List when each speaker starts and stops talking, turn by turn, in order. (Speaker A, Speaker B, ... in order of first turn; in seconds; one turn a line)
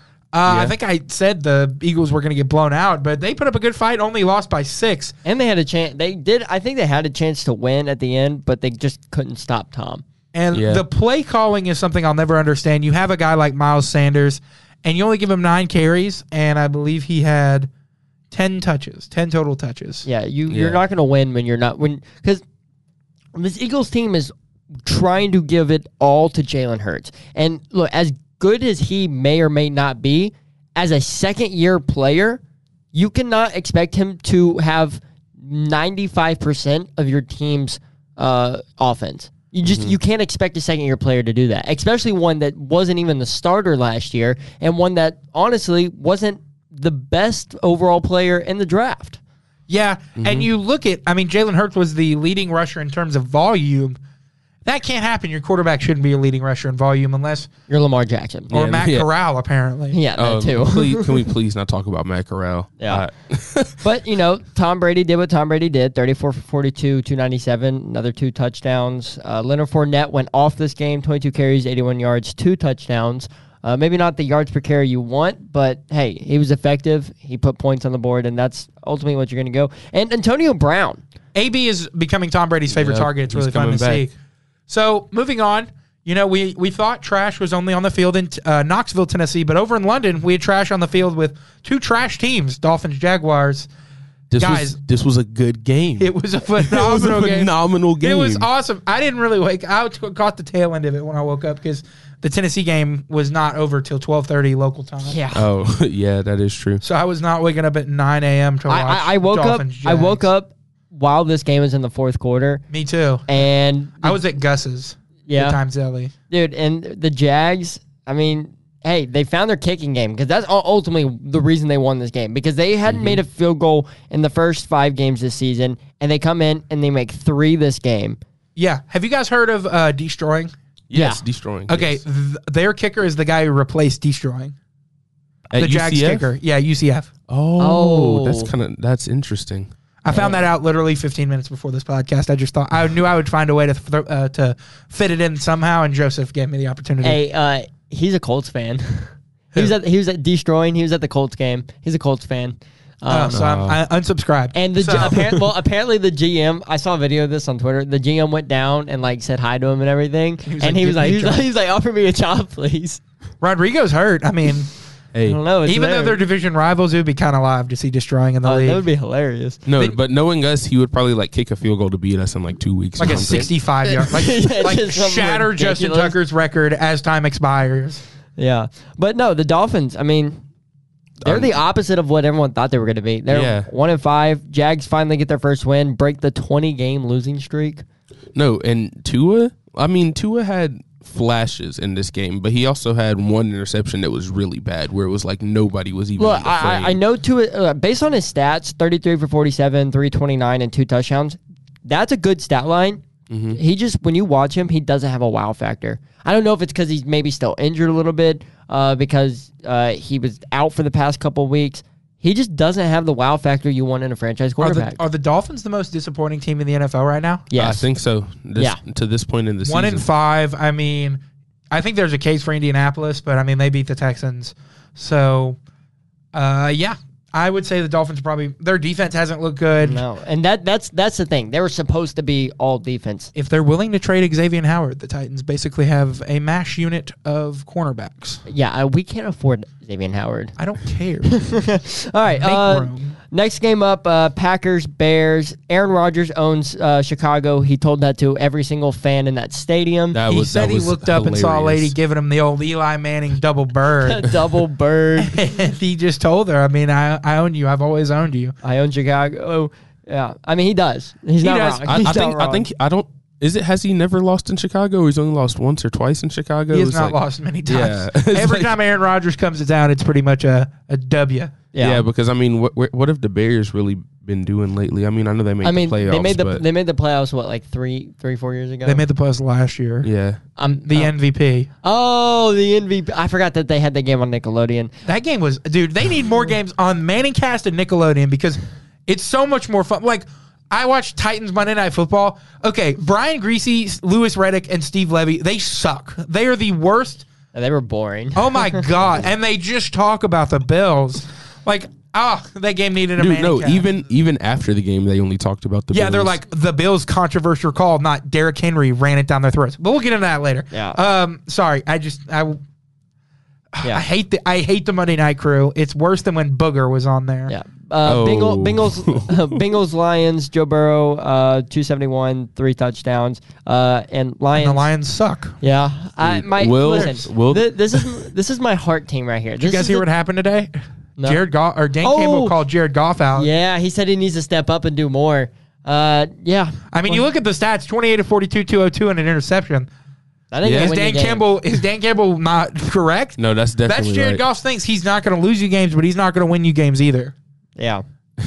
Speaker A: 0.3-5.2
Speaker B: 0.5-0.7
Speaker C: 5.2-10.0
Speaker A: 10.3-17.7
Speaker B: 10.5-10.8
Speaker A: 18.3-20.1
Speaker C: 20.0-22.4
Speaker B: 20.5-20.8
Speaker C: 23.3-32.4
Speaker C: 32.9-49.2
Speaker B: 39.6-40.0
Speaker A: 49.7-54.0
Speaker B: 50.2-50.5
Speaker A: 54.6-57.5
Speaker C: 57.7-58.5
Speaker B: 58.5-59.1
Speaker A: 58.5-60.0
Speaker C: 59.9-61.2
Speaker B: 60.2-63.8
Speaker C: 62.8-63.0
Speaker C: 63.8-81.0
Speaker A: 81.3-84.1
Speaker B: 82.7-84.1
Speaker A: 84.7-93.7
Speaker B: 94.3-98.5
Speaker A: 94.4-94.8
Speaker A: 96.0-105.2
Speaker C: 105.1-105.5
Speaker B: 105.3-106.8
Speaker A: 106.8-110.2
Speaker C: 108.7-112.6
Speaker A: 112.7-113.5
Speaker C: 113.3-114.2
Speaker A: 114.0-116.1
Speaker C: 115.3-115.6
Speaker C: 116.3-128.2
Speaker B: 122.9-123.2
Speaker A: 128.6-130.5
Speaker B: 130.9-132.0
Speaker C: 130.9-131.2
Speaker A: 131.7-134.5
Speaker B: 135.5-136.3
Speaker A: 135.6-137.1
Speaker B: 137.3-139.7
Speaker C: 137.6-138.5
Speaker A: 140.0-147.2
Speaker C: 140.1-140.5
Speaker C: 147.0-153.4
Speaker A: 153.1-155.4
Speaker B: 153.3-153.8
Speaker C: 154.5-163.0
Speaker A: 160.5-161.4
Speaker A: 163.4-164.7
Speaker B: 165.1-165.4
Speaker C: 165.3-166.2
Speaker A: 165.7-168.8
Speaker C: 168.4-169.6
Speaker B: 169.7-173.5
Speaker A: 173.0-178.0
Speaker C: 173.8-176.2
Speaker C: 178.4-180.4
Speaker B: 181.2-181.5
Speaker C: 181.2-187.8
Speaker B: 183.3-183.7
Speaker B: 188.3-197.0
Speaker C: 196.2-215.0
Speaker B: 203.3-203.6
Speaker A: 214.6-217.5
Speaker C: 217.5-217.8
Speaker B: 217.5-220.1
Speaker A: 219.7-225.6
Speaker A: 226.3-230.0
Speaker C: 229.8-233.3
Speaker A: 233.3-238.4
Speaker C: 238.5-240.6
Speaker A: 240.6-241.7
Speaker C: 241.3-250.2
Speaker A: 242.3-243.2
Speaker B: 250.1-251.9
Speaker A: 250.3-254.5
Speaker C: 254.0-255.4
Speaker A: 255.2-258.5
Speaker C: 258.6-262.6
Speaker A: 261.4-261.9
Speaker B: 261.8-268.7
Speaker A: 266.7-271.6
Speaker C: 271.7-272.0
Speaker B: 271.8-276.6
Speaker C: 275.6-279.0
Speaker A: 278.9-280.1
Speaker B: 280.0-280.4
Speaker C: 280.6-281.1
Speaker A: 280.7-281.7
Speaker C: 281.8-284.9
Speaker A: 285.1-297.3
Speaker C: 297.5-298.9
Speaker A: 298.4-303.9
Speaker B: 303.2-306.4
Speaker A: 305.9-312.6
Speaker C: 310.7-311.0
Speaker A: 313.7-317.5
Speaker C: 317.5-324.9
Speaker B: 318.1-319.6
Speaker A: 324.6-325.6
Speaker C: 325.6-330.1
Speaker B: 326.2-328.2
Speaker A: 326.8-327.2
Speaker A: 329.6-333.5
Speaker C: 332.0-332.6
Speaker C: 333.4-337.2
Speaker A: 336.9-339.9
Speaker C: 340.5-341.4
Speaker B: 340.6-340.9
Speaker A: 340.7-347.3
Speaker B: 343.4-344.4
Speaker C: 347.8-348.0